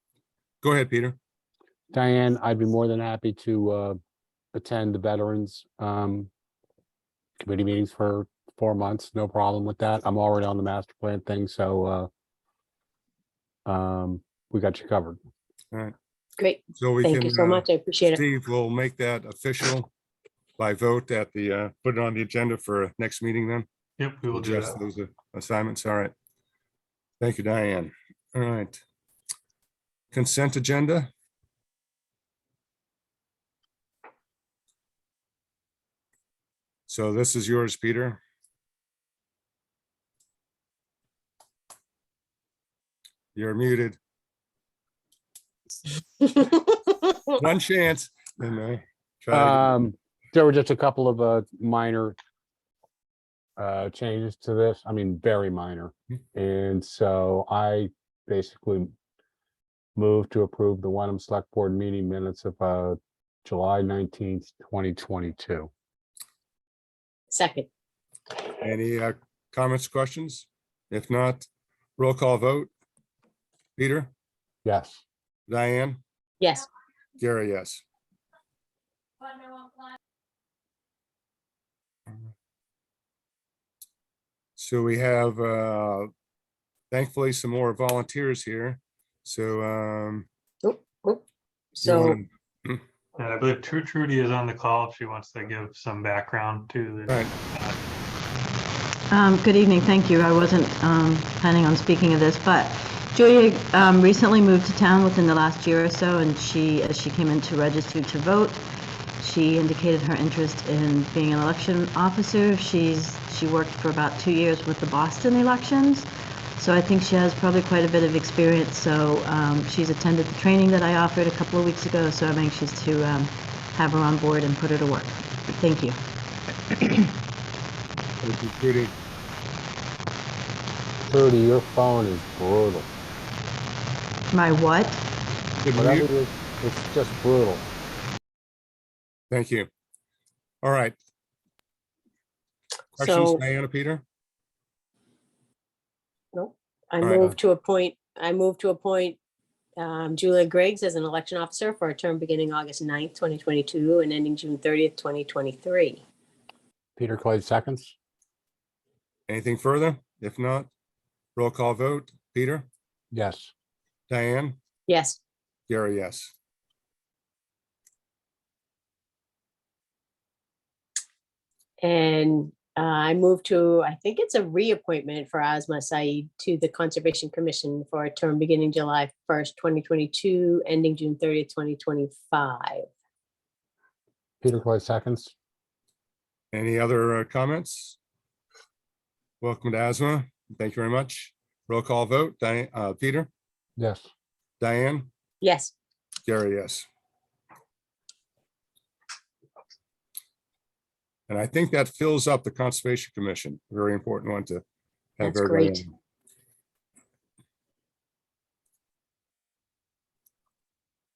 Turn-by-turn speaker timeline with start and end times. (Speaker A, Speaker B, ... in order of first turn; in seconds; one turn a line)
Speaker A: 0.6-1.2
Speaker B: 1.9-4.0
Speaker B: 4.5-6.3
Speaker B: 7.4-12.1
Speaker B: 13.7-15.2
Speaker C: 16.4-18.2
Speaker A: 16.8-19.9
Speaker A: 20.6-23.7
Speaker D: 24.0-24.8
Speaker A: 24.3-26.1
Speaker A: 27.2-28.8
Speaker A: 30.1-31.1
Speaker A: 36.9-38.2
Speaker A: 43.3-44.0
Speaker C: 46.2-46.5
Speaker A: 47.3-49.9
Speaker B: 49.3-52.2
Speaker B: 53.6-58.9
Speaker B: 60.0-65.7
Speaker C: 67.3-67.7
Speaker A: 68.6-71.5
Speaker A: 72.0-72.7
Speaker A: 73.8-74.1
Speaker B: 74.6-75.0
Speaker A: 75.5-76.0
Speaker C: 76.4-76.7
Speaker A: 77.2-77.8
Speaker A: 84.6-86.1
Speaker A: 86.9-90.2
Speaker C: 90.6-91.2
Speaker C: 91.7-92.2
Speaker A: 91.8-92.8
Speaker D: 93.2-97.8
Speaker E: 99.1-108.6
Speaker E: 109.2-116.0
Speaker E: 116.6-126.0
Speaker A: 128.2-128.9
Speaker B: 131.1-132.9
Speaker E: 134.3-135.0
Speaker A: 135.6-136.1
Speaker B: 135.7-137.7
Speaker A: 139.3-139.7
Speaker A: 140.6-140.9
Speaker A: 142.9-144.0
Speaker C: 143.0-143.4
Speaker C: 146.3-149.2
Speaker A: 147.0-147.3
Speaker C: 149.8-156.0
Speaker B: 157.0-157.9
Speaker A: 159.3-160.7
Speaker A: 161.3-162.7
Speaker B: 163.1-163.5
Speaker A: 164.1-164.6
Speaker C: 164.9-165.2
Speaker A: 165.7-166.3
Speaker C: 171.8-182.8
Speaker B: 184.4-185.3
Speaker A: 186.5-188.0
Speaker A: 189.4-193.3
Speaker B: 193.8-194.0
Speaker A: 194.6-195.1
Speaker C: 195.4-195.7
Speaker A: 196.2-196.9
Speaker A: 201.3-204.6
Speaker A: 205.2-205.9
Speaker C: 205.2-205.8